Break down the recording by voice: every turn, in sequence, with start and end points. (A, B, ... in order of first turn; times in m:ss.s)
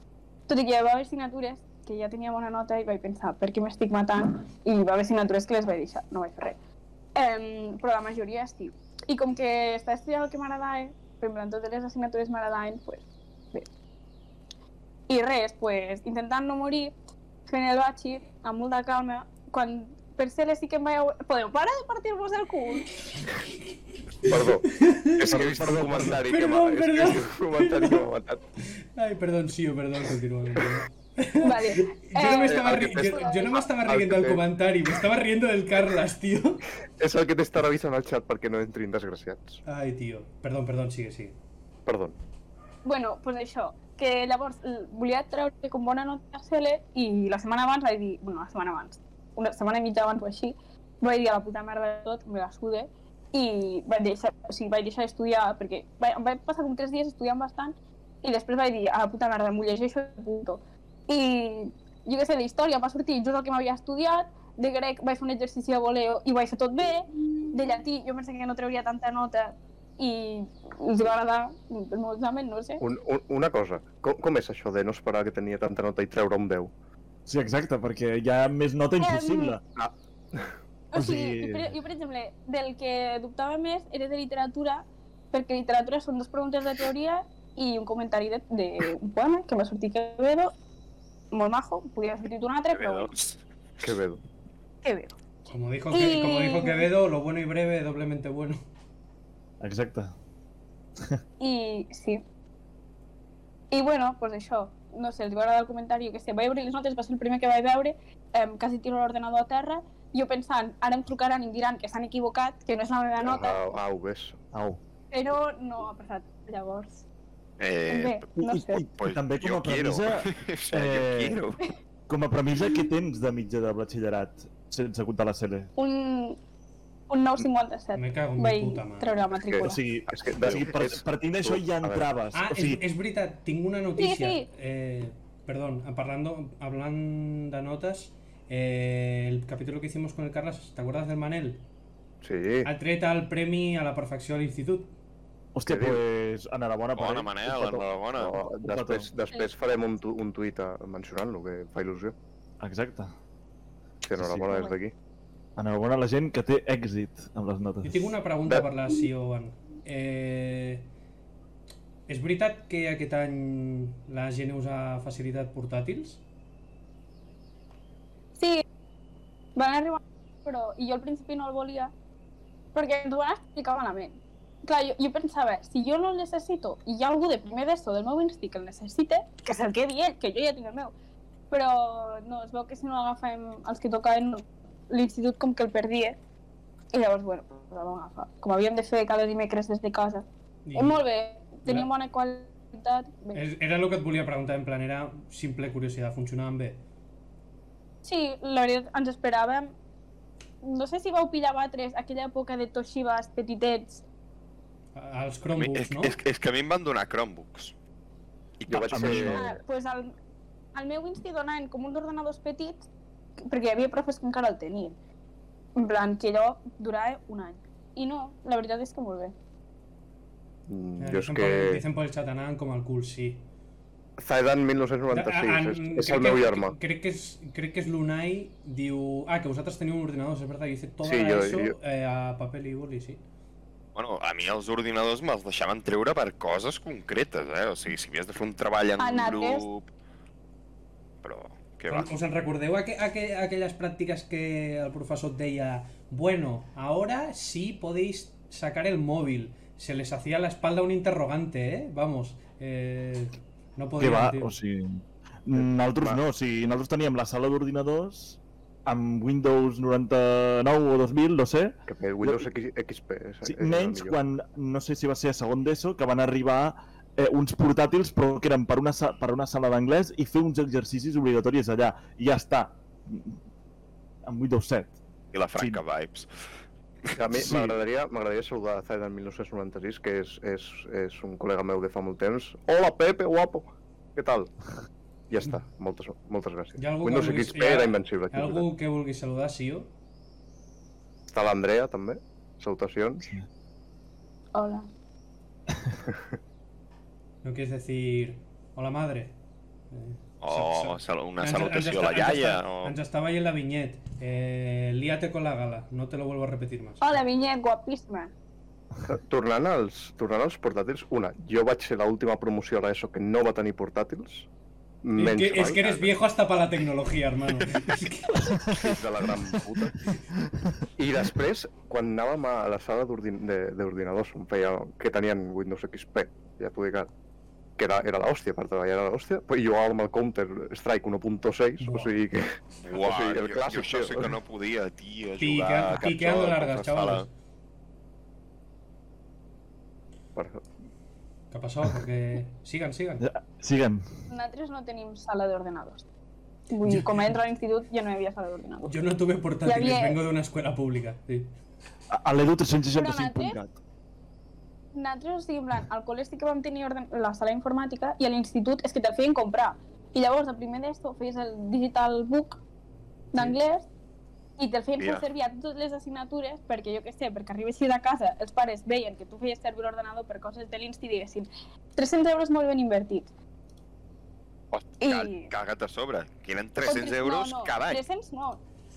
0:00.5-0:06.6 A
0:07.2-0:13.7 A
0:15.1-0:16.9 A
0:17.5-0:22.9 A
0:24.2-0:28.0 B
0:24.2-0:28.4 C
0:25.3-0:26.2 D
0:28.7-0:36.6 B
0:31.4-0:33.6 A
0:32.4-0:34.4 C
0:37.0-0:39.6 C
0:39.7-0:41.4 B
0:41.9-0:42.2 C
0:42.8-1:12.8 A
1:12.8-1:16.7 C
1:17.3-1:19.6 D
1:19.0-1:19.6 A
1:19.8-1:20.5 C
1:20.9-1:30.5 A
1:21.0-1:21.8 D
1:31.3-1:33.2 A
1:32.7-1:33.4 E
1:33.8-1:34.2 C
1:34.8-1:35.2 A
1:35.5-1:38.6 B
1:35.9-1:36.9 A
1:39.6-1:40.1 D
1:41.4-1:42.2 A
1:43.7-1:53.6 A
1:53.2-1:54.4 C
1:54.5-1:54.8 D
1:55.1-1:57.0 A
1:57.6-1:58.2 E
1:57.9-1:58.8 A
1:58.4-2:01.4 D
1:59.0-2:01.6 E
2:02.1-2:05.7 D
2:05.8-2:06.4 A
2:07.1-2:09.8 A
2:08.0-2:09.2 B
2:09.4-2:12.1 C
2:09.6-2:12.8 D
2:12.3-2:21.6 B
2:14.0-2:14.5 A
2:22.2-2:22.7 C
2:22.6-2:24.9 B
2:25.5-2:27.6 D
2:25.7-2:26.0 C
2:27.0-2:28.4 E
2:27.5-2:32.2 C
2:28.5-2:29.1 D
2:32.6-2:33.1 D
2:34.0-2:34.9 C
2:34.2-2:34.6 D
2:35.6-2:38.1 D
2:37.8-2:40.9 B
2:42.1-2:46.2 B
2:48.4-2:48.6 A
2:49.6-2:51.9 A
2:52.7-3:00.9 A
3:01.5-3:06.2 A
3:06.9-3:13.4 A
3:10.6-3:11.0 B
3:13.3-3:16.8 B
3:18.0-3:19.7 A
3:20.6-3:24.0 A
3:25.0-3:26.2 B
3:25.6-3:27.7 E
3:28.6-3:29.4 E
3:28.7-3:29.4 C
3:28.9-3:29.5 D
3:29.3-3:30.1 A
3:30.8-3:32.9 A
3:33.4-3:35.0 A
3:35.8-3:39.3 A
3:40.7-3:41.8 C
3:41.0-3:43.4 B
3:44.2-3:46.8 C
3:45.1-3:53.2 B
3:51.0-3:51.8 C
3:54.0-3:59.9 E
3:59.0-3:59.7 A
4:01.2-4:02.2 E
4:01.9-4:14.5 B
4:14.0-4:22.5 D
4:15.6-4:16.2 C
4:21.9-4:24.2 C
4:23.4-4:33.4 D
4:34.2-4:35.0 D
4:35.3-4:36.3 E
4:35.6-4:35.8 D
4:37.2-4:44.5 C
4:37.3-4:37.8 D
4:45.3-4:48.7 C
4:46.8-4:49.9 B
4:51.3-4:53.3 C
4:54.5-4:54.9 A
4:57.4-4:59.3 B
4:59.9-5:07.1 B
5:00.4-5:03.0 E
5:07.0-5:08.3 A
5:09.1-5:14.5 C
5:15.0-5:16.1 C
5:15.2-5:18.6 B
5:18.5-5:18.8 D
5:18.7-5:20.1 C
5:18.8-5:19.3 E
5:20.4-5:20.8 D
5:21.0-5:27.1 C
5:27.8-5:34.4 C
5:31.8-5:32.2 B
5:32.9-5:37.3 E
5:35.4-5:37.3 B
5:40.4-5:40.6 C
5:41.5-5:43.2 B
5:43.2-5:44.1 D
5:44.3-5:46.1 A
5:46.7-5:48.9 A
5:48.8-5:51.5 B
5:49.6-5:50.2 A
5:52.1-5:53.8 D
5:52.9-5:53.6 A
5:54.9-6:02.6 A
6:03.3-6:03.9 A
6:04.6-6:13.3 A
6:05.0-6:05.2 E
6:14.7-6:18.0 E
6:15.0-6:15.5 A
6:16.8-6:18.6 A